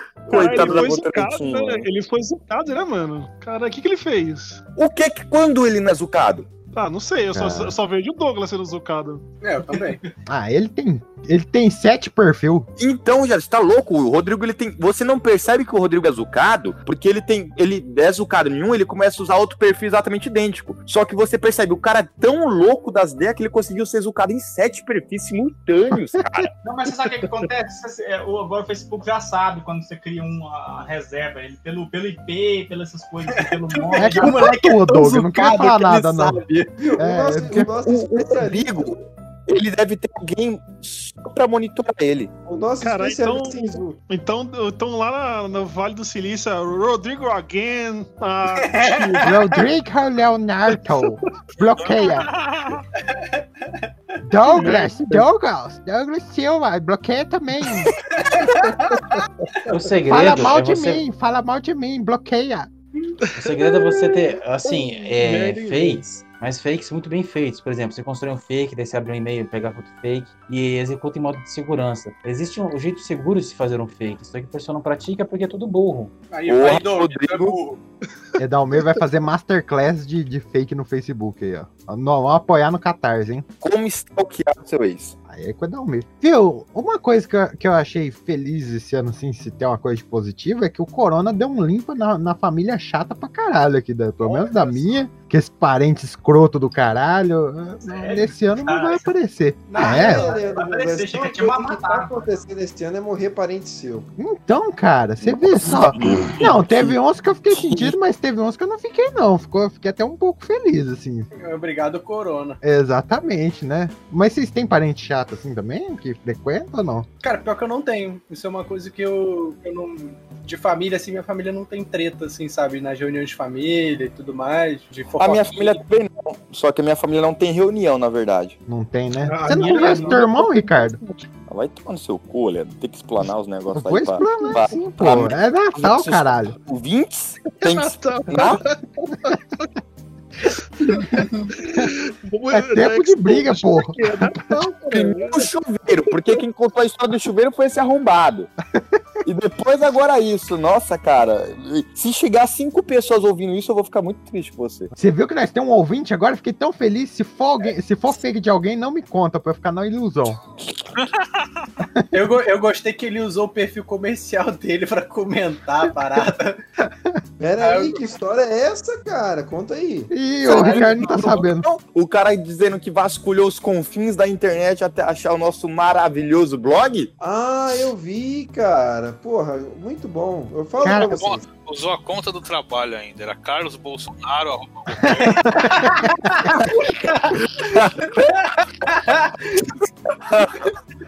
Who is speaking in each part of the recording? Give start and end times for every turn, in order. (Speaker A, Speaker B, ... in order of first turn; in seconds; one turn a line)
Speaker A: 0.2-1.9
Speaker B: 0.3-4.6
Speaker A: 4.8-6.5
Speaker B: 6.7-9.2
Speaker C: 7.3-7.8
Speaker D: 9.4-10.0
Speaker C: 10.3-12.7
Speaker A: 12.8-26.5
Speaker E: 26.6-34.5
Speaker D: 33.8-36.7
Speaker C: 34.0-36.4
Speaker F: 36.8-38.9
Speaker C: 37.0-37.7
Speaker A: 37.8-42.3
Speaker F: 42.5-44.0
Speaker B: 42.8-49.6
Speaker D: 48.6-49.0
Speaker C: 49.2-52.3
Speaker G: 51.8-52.8
Speaker D: 53.1-53.9
Speaker C: 54.2-57.9
Speaker B: 54.4-55.3
Speaker D: 58.1-59.2
Speaker B: 59.1-59.7
Speaker H: 59.7-61.0
Speaker C: 60.0-62.7
Speaker B: 63.2-66.0
Speaker H: 63.4-76.1
Speaker D: 76.3-77.8
Speaker A: 76.5-77.6
Speaker C: 78.4-83.5
Speaker A: 83.6-85.2
Speaker C: 85.3-100.4
Speaker D: 94.2-94.9
Speaker E: 97.8-99.1
Speaker D: 99.7-100.4
Speaker E: 99.8-102.1
Speaker F: 99.8-104.1
Speaker C: 104.2-111.3
Speaker A: 105.2-106.9
Speaker A: 107.5-107.9
Speaker D: 111.3-112.6
Speaker C: 112.6-117.1
Speaker D: 117.2-125.8
Speaker A: 125.2-128.6
Speaker C: 128.7-131.0
Speaker B: 129.2-131.2
Speaker D: 129.3-130.2
Speaker A: 131.5-138.6
Speaker C: 133.7-136.5
Speaker B: 137.4-139.6
Speaker B: 140.8-145.5
Speaker C: 142.5-144.6
Speaker A: 144.9-148.5
Speaker B: 146.0-146.4
Speaker A: 149.2-154.9
Speaker C: 154.9-160.4
Speaker G: 161.0-161.4
Speaker D: 162.1-166.6
Speaker C: 166.8-167.2
Speaker F: 167.4-170.1
Speaker D: 167.6-168.0
Speaker C: 170.1-171.7
Speaker A: 170.4-177.1
Speaker F: 177.2-181.4
Speaker C: 180.8-181.2
Speaker G: 180.9-185.4
Speaker C: 185.2-185.7
Speaker D: 185.3-189.6
Speaker A: 187.6-188.1